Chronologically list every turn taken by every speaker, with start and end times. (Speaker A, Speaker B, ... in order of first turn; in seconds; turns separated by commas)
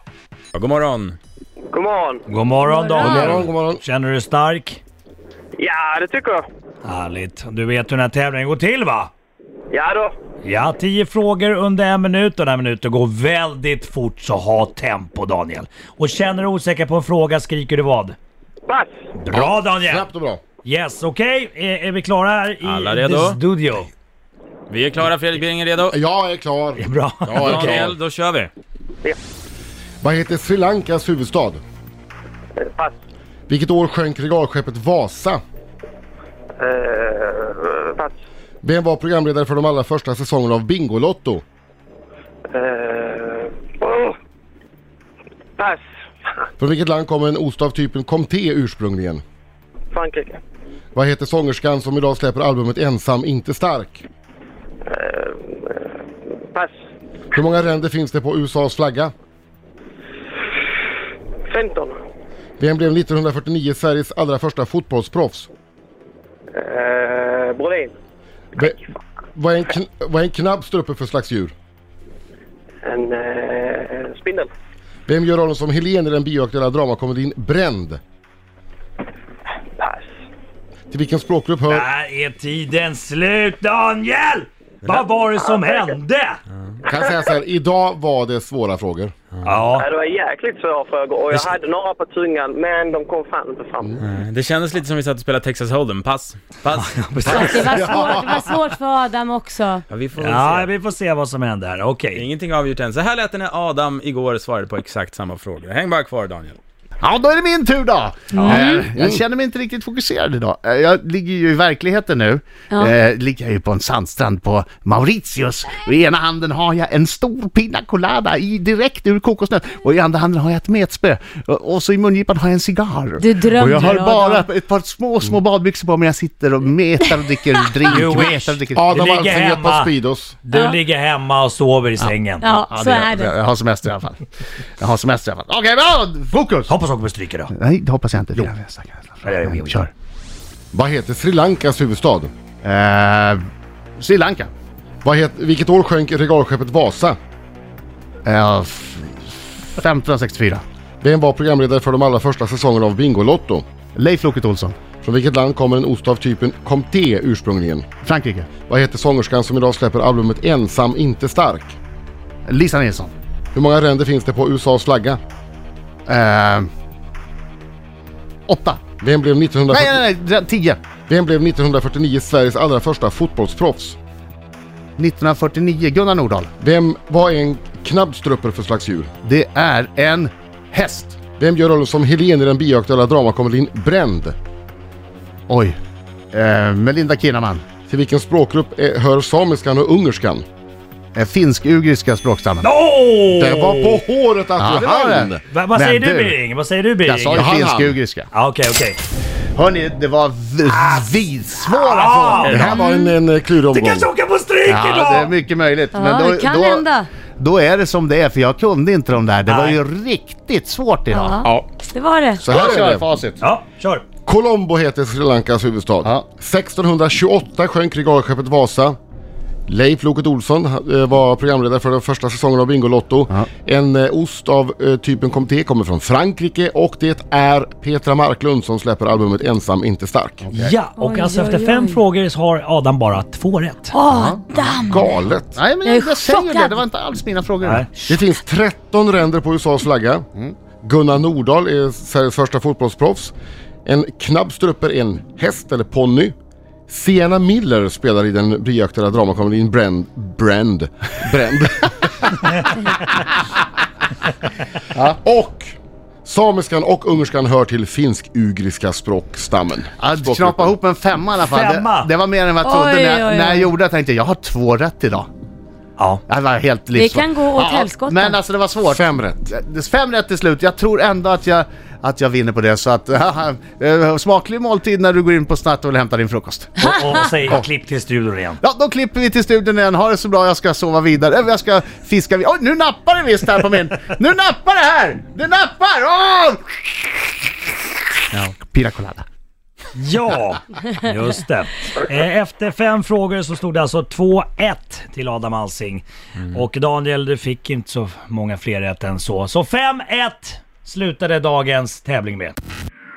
Speaker A: 0.5-1.2, Speaker B: 1.7-2.2, Speaker C: 2.3-4.8, Speaker D: 2.6-3.4, Speaker E: 3.0-3.8, Speaker B: 5.6-6.4, Speaker C: 6.8-9.1, Speaker B: 9.7-10.1, Speaker C: 10.4-18.2, Speaker C: 19.2-20.1, Speaker E: 19.3-20.4, Speaker C: 20.6-23.9, Speaker A: 22.6-23.4, Speaker A: 24.7-25.9, Speaker E: 25.9-28.0, Speaker C: 26.8-27.8, Speaker A: 27.3-28.5, Speaker E: 30.0-31.6, Speaker B: 32.6-32.9, Speaker E: 33.5-35.4, Speaker B: 36.6-38.1, Speaker E: 38.6-41.4, Speaker B: 42.5-44.1, Speaker E: 46.6-49.2, Speaker B: 49.9-50.4, Speaker E: 50.9-54.0, Speaker B: 54.9-55.9, Speaker E: 57.3-59.1, Speaker B: 61.5-62.0, Speaker E: 62.6-65.5, Speaker B: 66.5-67.9, Speaker E: 69.3-71.5, Speaker B: 72.8-74.5, Speaker E: 75.1-78.0, Speaker B: 79.8-80.0, Speaker E: 80.9-81.9, Speaker C: 81.7-86.4, Speaker B: 85.5-85.8, Speaker E: 86.8-89.1, Speaker C: 89.4-89.8, Speaker B: 89.7-94.0, Speaker A: 94.0-97.8, Speaker C: 96.8-98.3, Speaker D: 97.3-99.8, Speaker A: 99.9-100.7, Speaker C: 100.2-102.2, Speaker A: 102.1-106.6, Speaker F: 107.0-128.8, Speaker D: 108.3-108.8, Speaker D: 112.7-113.0, Speaker D: 123.2-124.5, Speaker C: 127.9-129.9, Speaker E: 128.7-130.4, Speaker C: 130.4-132.4, Speaker D: 130.5-130.8, Speaker F: 132.0-136.7, Speaker D: 132.4-133.4, Speaker C: 136.7-137.5, Speaker F: 137.5-139.9, Speaker C: 139.2-139.8, Speaker E: 140.7-142.3, Speaker F: 142.6-143.4, Speaker F: 144.0-144.5, Speaker E: 145.0-147.2, Speaker F: 148.2-150.6, Speaker E: 151.0-153.6, Speaker F: 153.9-154.8, Speaker E: 155.0-157.8, Speaker F: 158.0-158.5, Speaker E: 158.7-161.8, Speaker F: 162.5-163.1, Speaker E: 163.5-165.2, Speaker F: 166.1-166.7, Speaker F: 168.5-168.8, Speaker E: 169.0-170.1, Speaker F: 169.7-170.8, Speaker E: 171.1-174.0, Speaker F: 175.0-176.5, Speaker E: 176.6-179.1, Speaker F: 179.2-181.2, Speaker E: 181.4-184.3, Speaker F: 185.5-185.8, Speaker F: 186.3-187.6, Speaker E: 187.9-190.4, Speaker F: 191.1-192.7, Speaker C: 192.6-194.0, Speaker E: 193.3-195.4, Speaker F: 194.6-196.3, Speaker C: 195.5-197.5, Speaker F: 197.0-198.3, Speaker E: 197.3-198.0, Speaker C: 198.3-199.0, Speaker F: 199.5-202.8, Speaker C: 201.6-202.6, Speaker A: 202.4-202.8, Speaker E: 202.5-204.1, Speaker C: 203.7-205.3, Speaker F: 204.7-206.9, Speaker D: 205.9-207.1, Speaker F: 207.4-211.5, Speaker C: 209.4-209.8, Speaker D: 211.1-212.5, Speaker F: 212.4-213.4, Speaker E: 212.4-213.1, Speaker C: 213.4-214.0, Speaker E: 214.2-219.0, Speaker E: 219.7-230.4, Speaker F: 230.4-230.8, Speaker C: 230.5-233.9, Speaker D: 230.9-232.0, Speaker D: 233.9-235.2, Speaker F: 234.1-234.4, Speaker E: 234.7-235.6, Speaker F: 235.6-237.9, Speaker D: 235.8-236.8, Speaker C: 237.6-237.9, Speaker E: 238.1-240.3, Speaker E: 240.8-243.3, Speaker E: 243.8-246.3, Speaker E: 246.9-252.7, Speaker E: 255.2-260.8, Speaker F: 260.0-265.3, Speaker C: 261.5-262.1, Speaker D: 262.6-263.7, Speaker C: 266.0-266.2, Speaker F: 266.3-276.7, Speaker D: 266.9-268.4, Speaker E: 268.8-269.5, Speaker C: 276.8-278.6, Speaker F: 278.6-287.1, Speaker F: 288.3-289.2, Speaker C: 289.9-302.6